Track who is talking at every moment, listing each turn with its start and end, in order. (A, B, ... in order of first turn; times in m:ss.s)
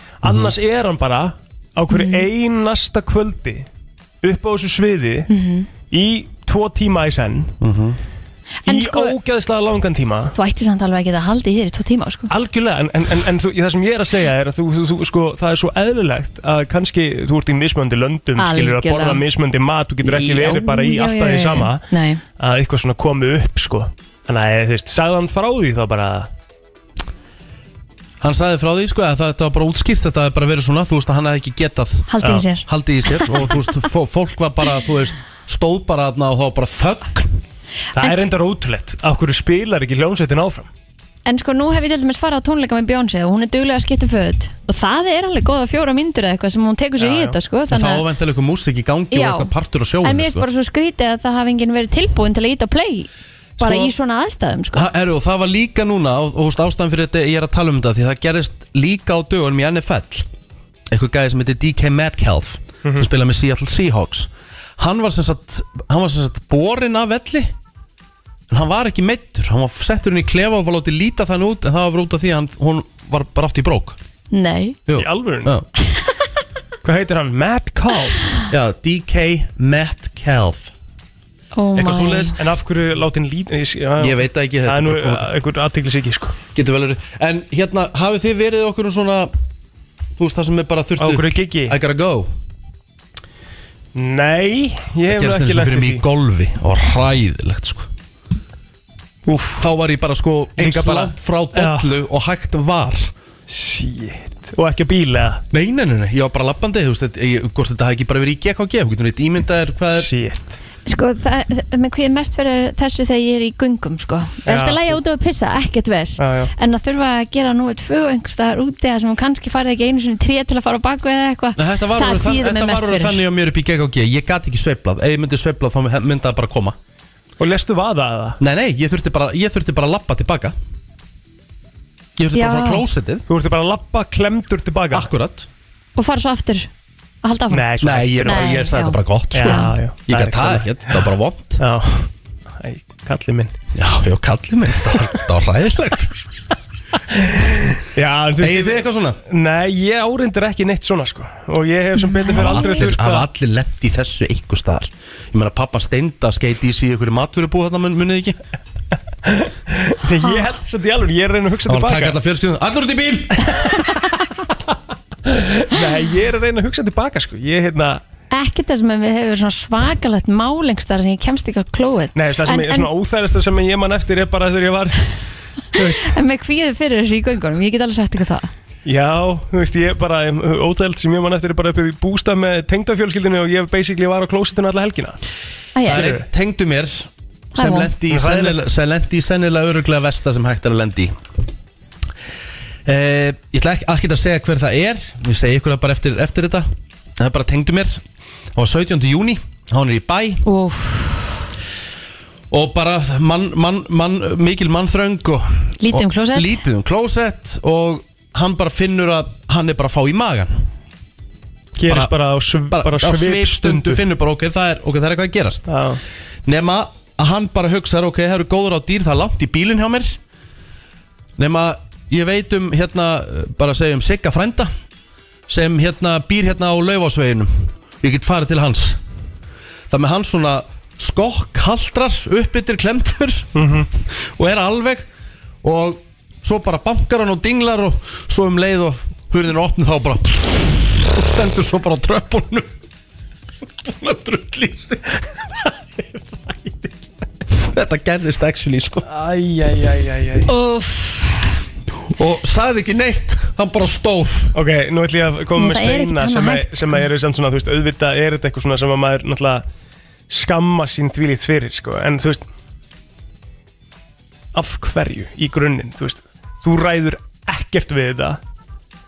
0:00.2-0:03.6 A
0:00.2-0:00.5 B
0:01.9-0:02.2 C
0:04.2-0:05.3 A
0:05.3-0:05.7 C
0:05.9-0:07.5 A
0:07.6-0:08.0 B
0:08.6-0:09.1 C
0:08.7-0:10.3 A
0:10.3-0:12.3 C
0:12.3-0:21.8 A
0:18.4-0:19.2 C
0:20.0-0:22.2 C
0:22.4-0:26.3 A
0:28.2-0:32.1 B
0:32.1-0:33.5 C
0:32.6-0:37.4 B
0:37.9-0:40.7 A
0:41.2-0:48.0 C
0:47.0-0:47.4 A
0:47.7-0:50.4 B
0:49.1-0:49.5 C
0:50.0-0:54.8 C
0:53.6-0:53.9 B
0:54.7-1:00.3 B
1:00.9-1:07.5 B
1:08.5-1:14.0 B
1:14.3-1:14.8 C
1:14.9-1:15.7 B
1:14.9-1:15.5 A
1:16.8-1:18.3 A
1:18.5-1:20.7 B
1:21.5-1:22.3 C
1:21.8-1:22.3 B
1:22.4-1:26.4 A
1:24.0-1:25.3 B
1:26.5-1:29.3 B
1:30.2-1:32.3 B
1:31.0-1:31.8 A
1:33.9-1:36.0 A
1:35.1-1:37.9 B
1:39.3-1:39.7 A
1:39.6-1:43.1 B
1:40.6-1:41.9 A
1:43.5-1:45.4 A
1:45.5-1:50.1 B
1:49.9-1:50.6 A
1:50.8-2:03.2 C
1:54.4-1:55.0 A
1:56.2-1:56.5 A
2:01.6-2:06.8 B
2:07.4-2:08.4 A
2:08.4-2:10.5 B
2:12.2-2:13.2 B
2:12.3-2:12.8 C
2:13.3-2:15.1 A
2:14.9-2:15.5 B
2:16.0-2:16.7 C
2:17.2-2:17.7 C
2:17.5-2:18.6 A
2:17.8-2:21.6 B
2:18.2-2:19.7 C
2:19.3-2:21.0 A
2:21.6-2:23.5 A
2:23.7-2:26.1 B
2:27.3-2:33.3 A
2:28.4-2:29.2 B
2:32.0-2:32.8 C
2:32.3-2:38.4 B
2:39.2-2:42.2 A
2:40.2-2:40.5 C
2:41.7-2:43.4 B
2:43.5-2:44.3 A
2:45.2-2:48.0 A
2:48.3-2:52.9 C
2:52.1-2:55.1 A
2:55.7-2:56.1 A
2:55.8-2:58.5 C
2:58.8-3:05.2 A
3:05.7-3:06.1 C
3:05.8-3:06.2 A
3:05.9-3:11.2 B
3:07.6-3:07.9 C
3:08.1-3:08.6 A
3:12.8-3:18.0 B
3:18.5-3:20.4 B
3:20.4-3:21.4 C
3:22.5-3:30.7 B
3:25.8-3:26.6 C
3:31.8-3:34.0 A
3:31.9-3:32.1 B
3:32.7-3:35.7 B
3:35.7-3:36.0 A
3:36.4-3:40.2 B
3:41.4-3:44.7 B
3:45.5-3:49.0 B
3:49.9-3:55.1 B
3:53.5-3:53.9 A
3:55.6-4:02.7 B
4:03.8-4:05.0 B
4:05.1-4:07.0 A
4:07.6-4:09.0 B
4:09.1-4:10.5 A
4:10.5-4:11.6 C
4:12.2-4:14.6 B
4:14.5-4:19.6 A
4:15.6-4:17.1 C
4:20.3-4:22.4 A
4:24.5-4:28.4 A